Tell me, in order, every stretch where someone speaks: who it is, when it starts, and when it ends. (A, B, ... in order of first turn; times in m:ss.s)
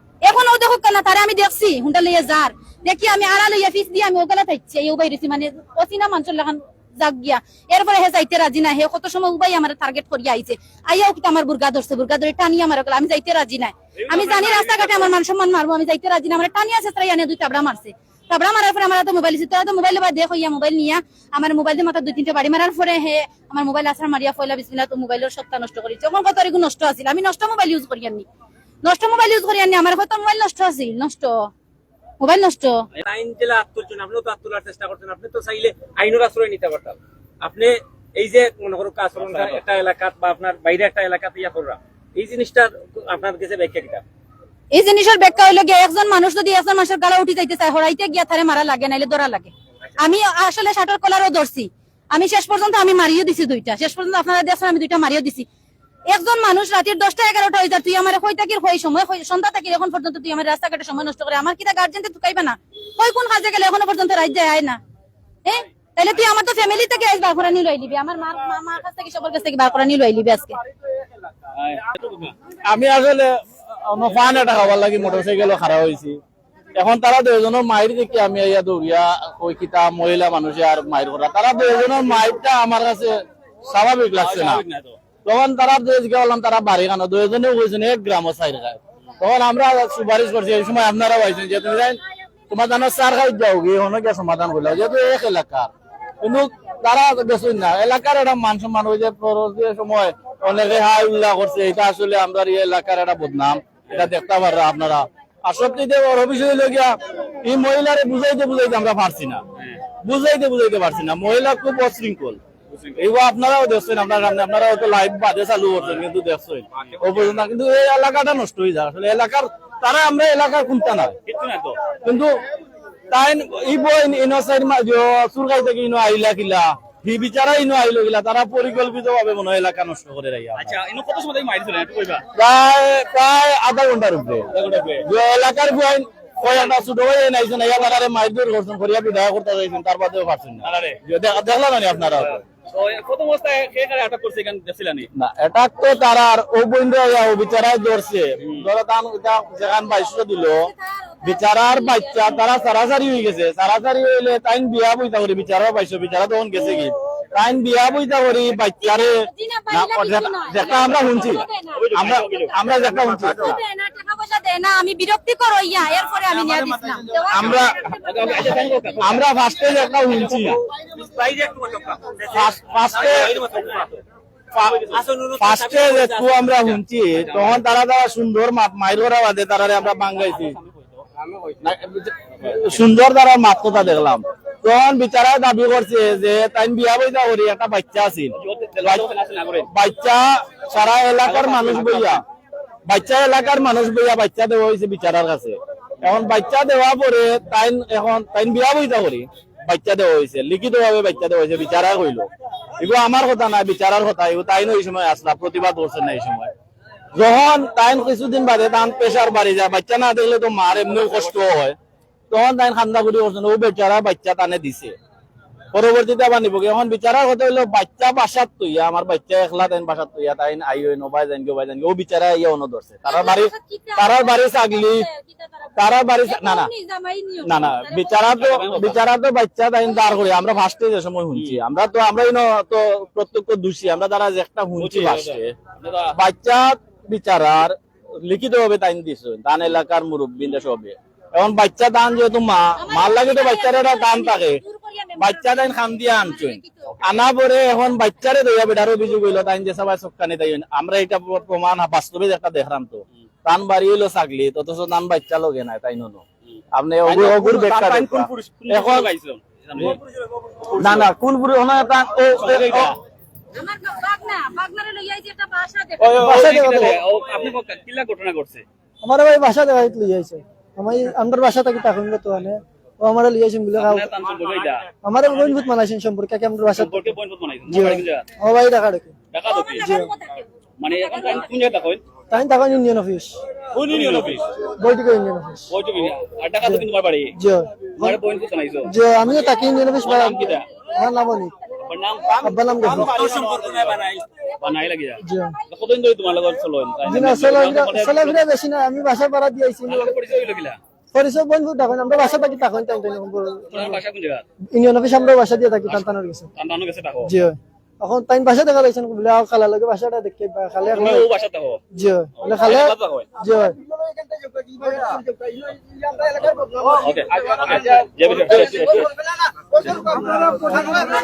0:00.2-0:28.3 A
0:14.0-0:15.1 B
0:28.8-0:31.5 A
0:32.2-0:32.9 A
0:33.0-0:44.0 C
0:39.2-0:39.6 B
0:44.7-0:55.5 A
0:56.1-1:04.8 A
1:05.4-1:10.6 A
1:11.5-1:12.3 B
1:12.7-1:16.2 D
1:16.8-1:24.6 D
1:24.1-1:25.0 B
1:25.2-1:35.7 D
1:36.2-1:49.4 D
1:50.0-1:52.4 D
1:52.7-1:53.1 B
1:53.0-2:01.2 D
1:56.8-1:57.4 B
2:01.3-2:01.8 B
2:02.0-2:02.3 D
2:03.1-2:10.8 D
2:10.6-2:12.2 B
2:12.3-2:22.4 D
2:14.5-2:15.1 B
2:20.6-2:21.0 B
2:22.2-2:25.1 B
2:25.2-2:30.7 D
2:28.4-2:28.7 B
2:30.5-2:32.5 A
2:31.2-2:43.6 D
2:38.8-2:41.9 A
2:41.7-2:42.6 B
2:43.1-2:48.8 A
2:46.5-2:48.5 D
2:48.0-2:49.2 B
2:49.0-2:50.6 D
2:50.9-2:52.4 C
2:52.3-2:53.4 D
2:53.0-2:54.0 C
2:53.2-2:53.7 B
2:54.5-3:00.6 D
2:54.8-2:56.6 C
2:57.3-2:57.6 B
3:00.3-3:01.1 B
3:01.6-3:09.1 D
3:08.4-3:09.7 B
3:09.7-3:12.2 D
3:11.2-3:12.2 B
3:12.9-3:22.3 D
3:22.8-3:26.5 D
3:27.1-3:31.8 D
3:32.3-3:34.9 D
3:35.7-3:45.1 D
3:43.0-3:48.3 A
3:45.8-3:46.7 D
3:47.4-3:55.6 D
3:48.3-3:49.0 B
3:51.3-3:51.6 B
3:54.8-3:56.2 B
3:56.1-4:04.6 D
4:02.8-4:07.0 A
4:05.2-4:19.1 D
4:16.5-4:20.0 B
4:20.6-4:21.1 B
4:20.8-4:23.0 D
4:22.4-4:23.0 B
4:23.5-4:26.3 A
4:26.0-4:28.6 B
4:26.1-4:27.0 E
4:29.0-4:34.1 E
4:33.8-4:34.9 B
4:35.0-4:37.1 E
4:36.8-4:38.3 B
4:37.7-4:39.2 E
4:39.3-4:39.9 B
4:39.4-4:41.5 A
4:39.8-4:40.1 E
4:40.8-4:42.0 B
4:42.3-4:43.4 E
4:43.7-4:44.4 B
4:44.6-4:45.7 E
4:45.7-4:47.4 B
4:47.4-4:48.2 E
4:47.9-4:50.7 B
4:48.8-4:51.5 E
4:51.9-4:58.4 B
4:52.4-4:53.8 D
4:52.4-4:53.2 E
4:53.0-4:54.2 C
4:55.2-4:55.6 E
4:57.0-5:00.1 E
4:59.9-5:00.8 B
5:01.1-5:04.0 E
5:03.7-5:04.4 B
5:04.7-5:06.5 E
5:05.8-5:07.3 B
5:07.2-5:11.3 E
5:10.9-5:11.8 B
5:11.9-5:13.8 E
5:12.4-5:13.3 B
5:14.7-5:15.5 E
5:16.4-5:19.1 B
5:20.2-5:21.0 E